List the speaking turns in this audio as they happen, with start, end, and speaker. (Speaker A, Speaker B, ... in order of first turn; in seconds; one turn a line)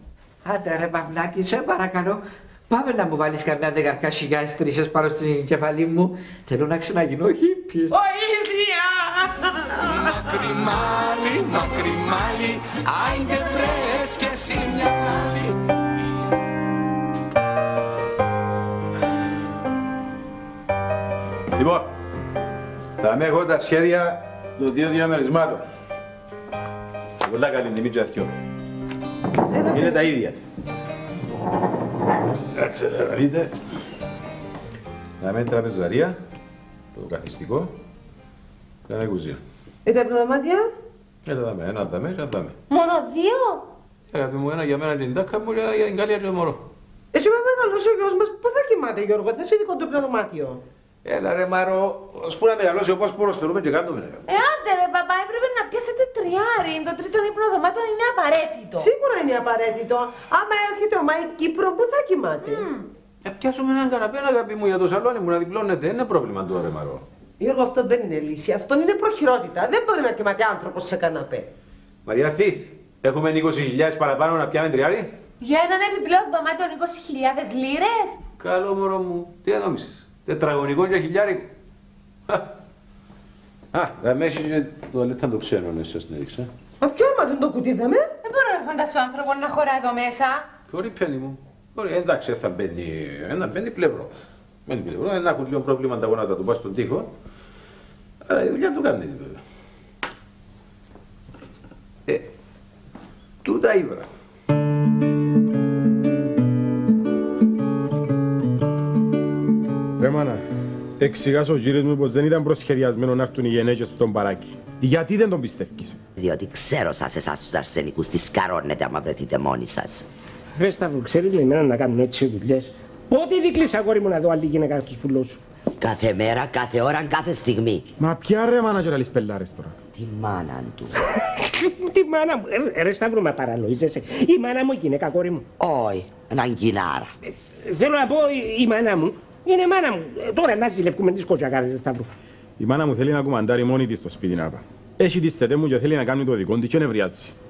Speaker A: 0.4-8.0
Speaker B: 7.9-10.4
Speaker C: 10.1-15.5
Speaker D: 21.6-21.9
Speaker D: 23.0-25.6
Speaker D: 27.2-28.3
Speaker E: 29.5-30.1
Speaker F: 29.7-30.4
Speaker D: 32.5-33.5
Speaker D: 35.2-36.2
Speaker D: 36.9-37.7
Speaker D: 38.9-39.4
Speaker E: 39.9-40.7
Speaker D: 41.2-42.5
Speaker G: 42.7-43.7
Speaker D: 44.1-46.7
Speaker E: 47.1-50.6
Speaker D: 51.0-54.2
Speaker G: 54.3-58.9
Speaker E: 58.7-62.7
Speaker G: 62.4-62.8
Speaker D: 63.2-67.0
Speaker E: 67.4-71.5
Speaker D: 72.0-75.1
Speaker G: 75.4-78.2
Speaker D: 78.4-81.5
Speaker D: 83.7-86.5
Speaker E: 86.8-88.1
Speaker G: 88.2-90.5
Speaker D: 90.7-94.1
Speaker D: 94.7-97.1
Speaker D: 98.2-99.4
Speaker D: 103.4-104.1
Speaker F: 110.0-110.4
Speaker F: 111.0-116.0
Speaker H: 116.2-120.0
Speaker I: 120.5-125.4
Speaker H: 125.8-127.9
Speaker F: 128.0-129.7
Speaker H: 129.9-130.9
Speaker I: 131.2-135.4
Speaker H: 135.6-137.1
Speaker I: 137.2-142.1
Speaker F: 142.6-147.3